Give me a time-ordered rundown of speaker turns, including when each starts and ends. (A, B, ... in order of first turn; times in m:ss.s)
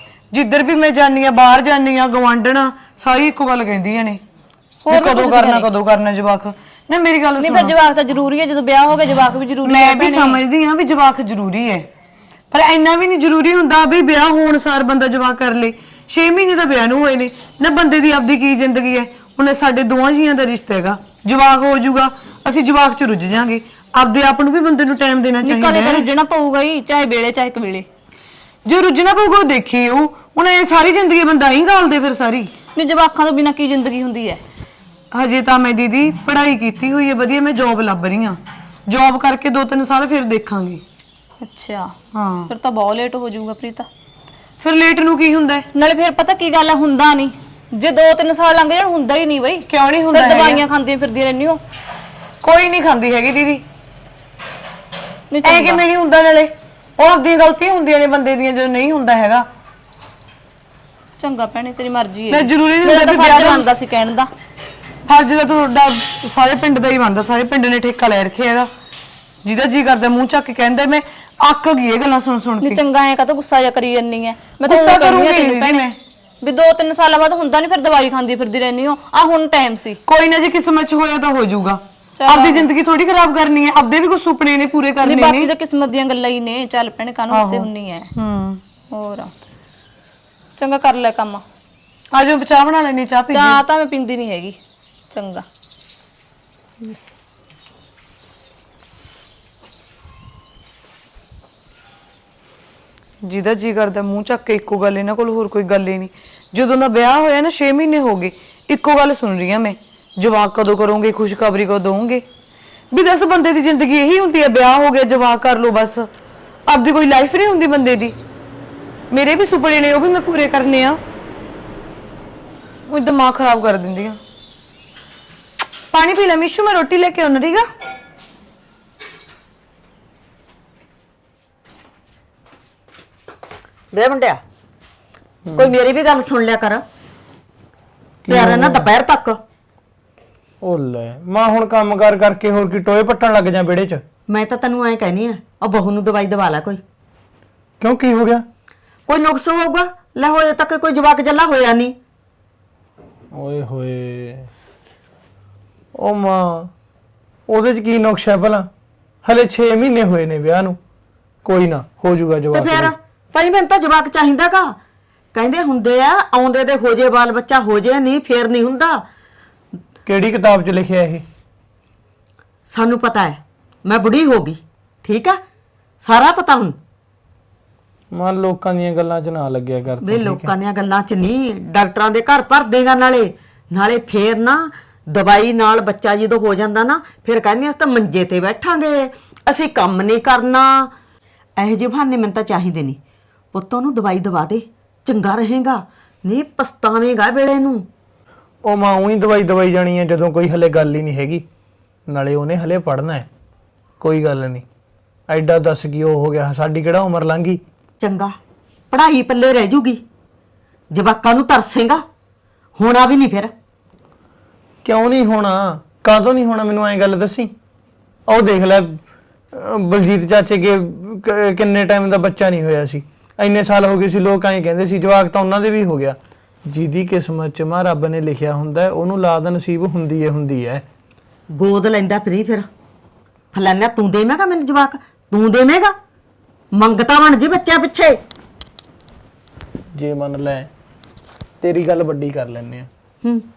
0:00.3-0:04.2 A
0:04.8-0:05.7 B
0:04.9-0:07.7 A
0:07.4-0:10.4 B
0:09.6-0:11.9 A
0:12.5-0:26.1 A
0:25.4-0:27.9 B
0:28.6-0:32.5 A
0:32.8-0:34.4 B
0:35.1-0:40.8 A
0:41.4-0:41.9 B
0:42.1-0:42.5 A
0:42.5-0:43.9 B
0:44.6-0:45.7 A
0:45.7-0:51.6 B
0:49.7-0:50.6 A
0:52.4-0:53.6 A
0:55.3-0:55.8 B
0:55.4-0:59.5 A
1:01.2-1:04.3 B
1:02.3-1:03.7 A
1:05.1-1:08.7 A
1:09.4-1:12.8 A
1:12.6-1:15.9 B
1:14.6-1:16.0 A
1:16.4-1:20.0 B
1:20.1-1:25.5 A
1:22.2-1:22.7 B
1:25.0-1:28.1 B
1:27.3-1:28.6 A
1:28.9-1:29.3 B
1:30.6-1:31.4 B
1:32.1-1:33.6 A
1:33.3-1:34.6 B
1:35.1-1:35.5 B
1:43.2-1:52.2 A
1:52.9-1:56.1 A
1:56.7-1:58.2 A
1:59.1-2:01.0 A
2:02.9-2:04.2 A
2:05.9-2:07.7 A
2:13.9-2:14.4 C
2:15.5-2:15.7 D
2:15.6-2:16.8 C
2:18.2-2:18.9 D
2:18.3-2:19.4 C
2:20.6-2:24.0 D
2:24.3-2:26.8 C
2:27.8-2:28.4 D
2:29.1-2:32.0 C
2:33.3-2:34.5 D
2:36.0-2:36.7 D
2:37.5-2:38.7 D
2:39.2-2:40.8 D
2:41.4-2:42.9 D
2:42.5-2:44.8 C
2:45.3-2:49.0 C
2:50.1-2:51.2 D
2:52.7-2:55.4 C
2:56.0-2:56.8 C
2:58.1-3:00.5 D
3:00.0-3:10.9 C
3:11.6-3:13.0 C
3:13.5-3:17.9 C
3:18.6-3:21.4 D
3:22.1-3:23.3 D
3:24.0-3:24.7 D
3:25.3-3:27.6 D
3:28.0-3:28.4 C
3:28.9-3:30.0 C
3:30.9-3:32.0 C
3:32.8-3:33.5 C
3:34.8-3:37.5 D
3:38.3-3:39.0 D
3:39.5-3:50.8 D
3:51.5-3:52.7 C
3:53.5-3:56.0 C
3:56.7-3:58.2 C
3:59.9-4:00.7 D
4:01.6-4:02.9 D